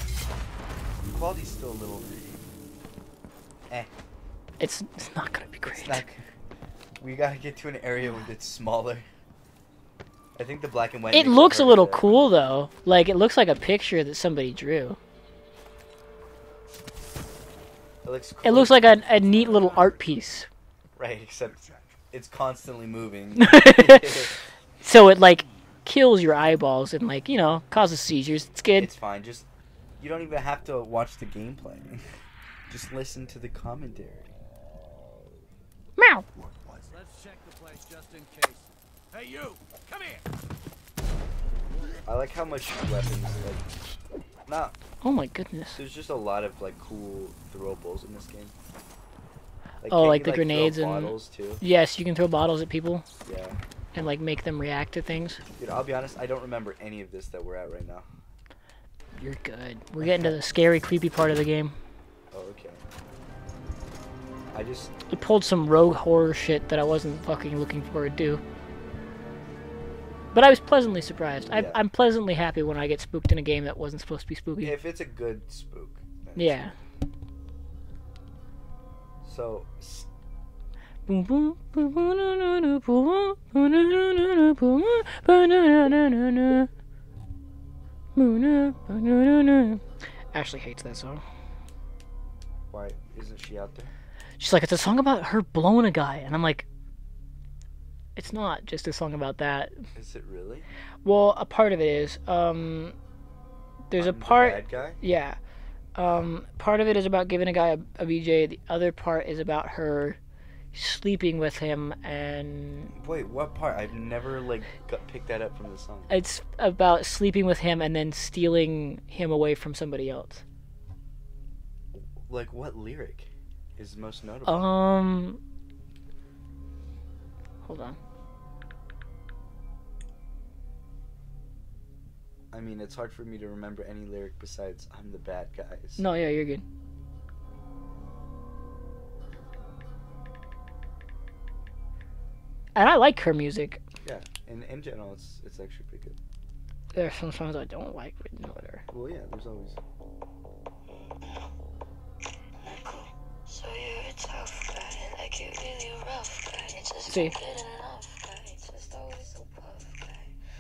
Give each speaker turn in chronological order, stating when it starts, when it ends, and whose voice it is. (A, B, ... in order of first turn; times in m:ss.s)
0:01.1-0:02.2 A
0:04.6-0:06.0 B
0:05.6-0:06.2 A
0:07.0-0:09.1 A
0:10.4-0:12.1 A
0:11.1-0:15.0 B
0:18.0-0:18.9 A
0:18.4-0:20.5 B
0:21.0-0:24.4 A
0:23.4-0:24.3 B
0:24.8-0:28.9 B
0:28.8-0:29.5 A
0:30.0-0:32.0 A
0:32.7-0:34.3 A
0:36.0-0:36.2 B
0:36.9-0:40.2 C
0:42.1-0:43.7 A
0:44.5-0:44.8 A
0:45.0-0:45.8 B
0:45.7-0:48.5 A
0:49.8-0:51.6 A
0:49.9-0:53.1 B
0:53.2-0:53.6 A
0:53.9-0:55.4 B
0:55.6-0:58.1 A
0:59.2-1:01.8 B
1:00.0-1:00.4 A
1:02.3-1:02.8 A
1:04.5-1:04.9 A
1:05.1-1:08.4 B
1:10.3-1:14.8 B
1:11.5-1:11.8 A
1:14.6-1:16.7 A
1:16.4-1:16.7 B
1:19.2-1:20.1 A
1:21.1-1:26.7 B
1:28.2-1:29.8 B
1:30.3-1:31.2 B
1:32.7-1:33.9 A
1:34.4-1:36.7 B
1:38.2-1:39.7 B
1:40.0-1:40.7 A
1:41.0-1:43.0 B
1:43.9-1:45.4 B
1:44.0-1:45.0 A
1:46.0-1:50.2 B
1:50.7-1:52.9 B
1:52.9-1:56.2 A
1:56.1-2:00.4 B
2:01.9-2:04.7 A
2:04.5-2:05.4 B
2:07.6-2:08.0 B
2:12.5-2:16.0 A
2:16.0-2:16.6 B
2:22.8-2:23.8 B
2:24.0-2:26.2 A
2:26.9-2:28.8 B
2:28.9-2:29.8 A
2:32.6-2:40.3 D
2:37.0-2:37.4 B